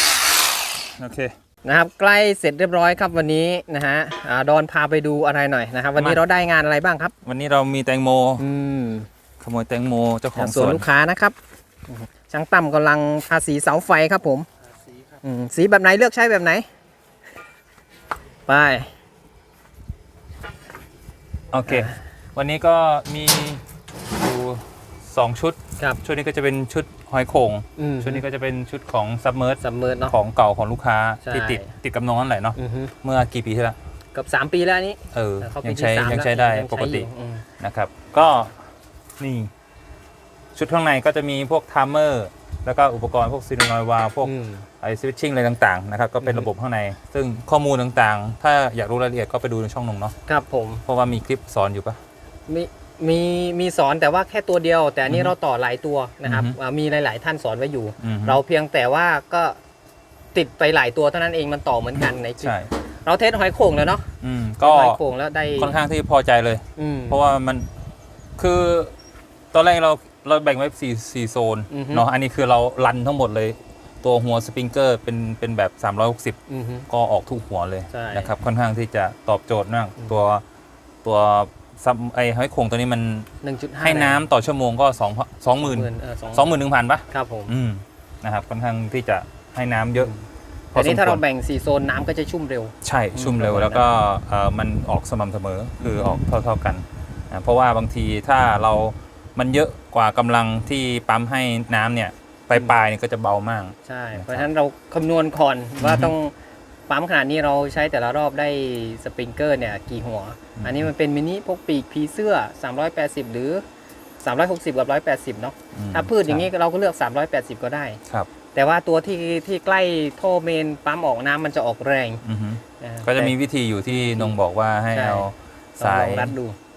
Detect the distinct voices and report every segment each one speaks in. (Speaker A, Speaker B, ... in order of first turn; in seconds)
Speaker A: 1.0-1.3, 7.2-8.4, 9.4-10.8, 21.5-23.6, 24.1-33.8, 35.1-37.1, 37.6-38.6, 39.2-39.5, 40.5-50.1, 50.9-52.0, 55.1-55.3, 56.2-56.5, 58.0-58.4, 62.4-62.7, 64.2-65.0, 65.6-67.7, 68.4-68.9, 69.5-76.4, 76.9-80.4, 81.0-83.3, 83.8-90.1, 90.7-91.2, 92.8-104.5, 105.8-106.1, 110.6-110.9, 115.7-116.5, 122.2-126.3
Speaker B: 1.6-7.1, 8.4-9.1, 10.3-11.3, 11.9-14.5, 15.2-16.6, 18.5-18.9, 21.7-21.9, 27.8-28.2, 29.6-30.1, 31.2-31.7, 32.5-32.9, 34.1-37.5, 44.2-44.7, 46.2-46.5, 50.2-50.8, 52.5-59.6, 60.3-64.1, 64.6-65.7, 66.8-67.2, 71.7-72.0, 76.5-76.9, 77.9-78.3, 83.4-84.2, 85.6-87.5, 90.0-90.2, 90.7-93.8, 95.8-96.2, 103.8-106.3, 106.9-113.6, 114.2-118.0, 118.5-122.2, 122.8-123.3, 123.9-124.3, 124.9-126.5